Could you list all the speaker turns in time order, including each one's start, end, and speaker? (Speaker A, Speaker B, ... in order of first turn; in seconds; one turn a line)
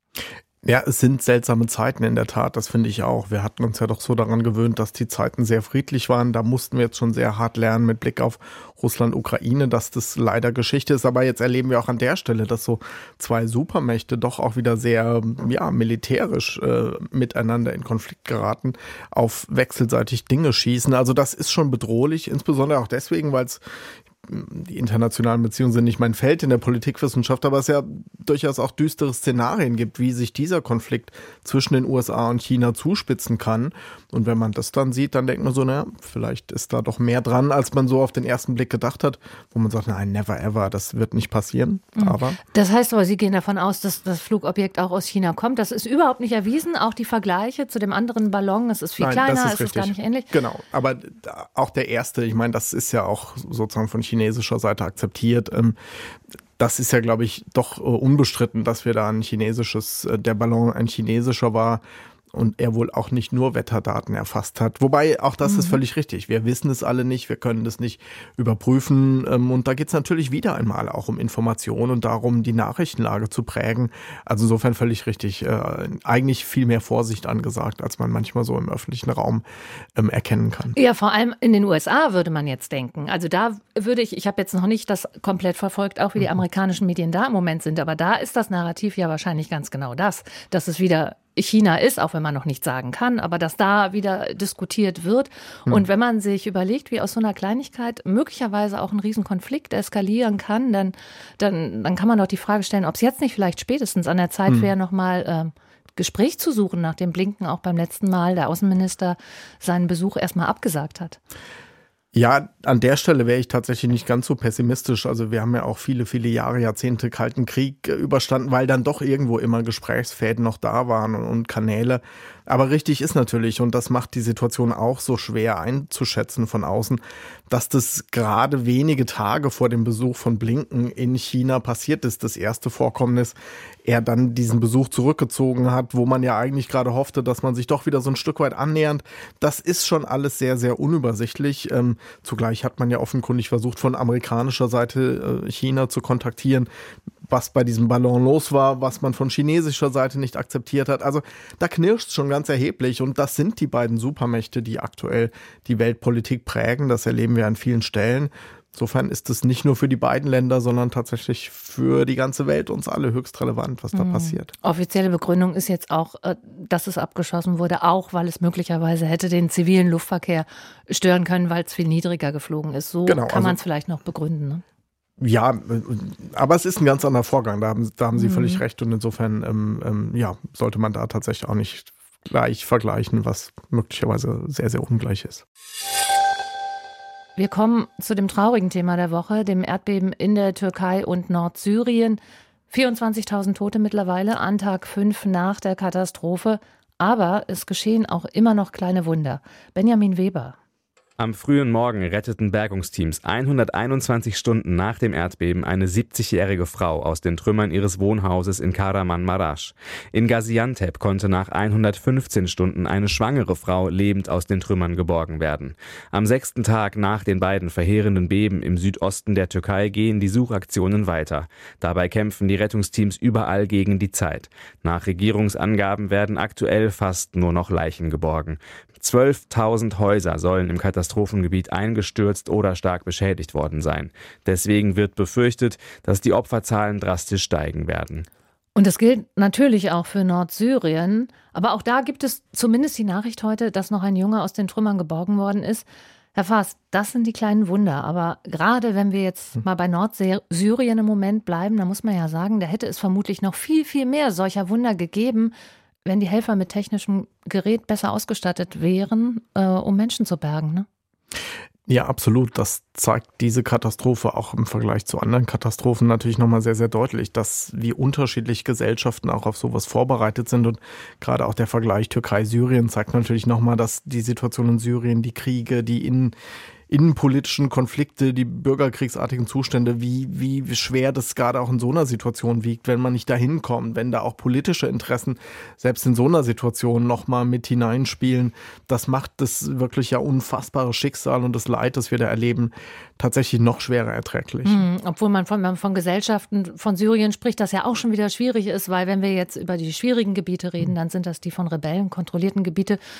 Speaker A: 0.6-23.6
Speaker A: 24.2-42.4
Speaker B: 42.0-50.3
Speaker A: 49.0-55.8
Speaker A: 56.6-79.4
Speaker B: 65.5-65.8
Speaker A: 80.0-80.8
Speaker B: 80.8-111.2
Speaker A: 112.1-146.7
Speaker A: 147.3-164.5
Speaker B: 163.9-174.6
Speaker A: 173.1-173.6
Speaker A: 175.2-185.4
Speaker B: 178.2-178.6
Speaker B: 187.4-200.6
Speaker C: 201.2-238.3
Speaker B: 238.8-255.5
Speaker B: 256.1-260.9
Speaker A: 261.9-276.4
Speaker A: 276.9-294.8
Speaker B: 294.6-303.0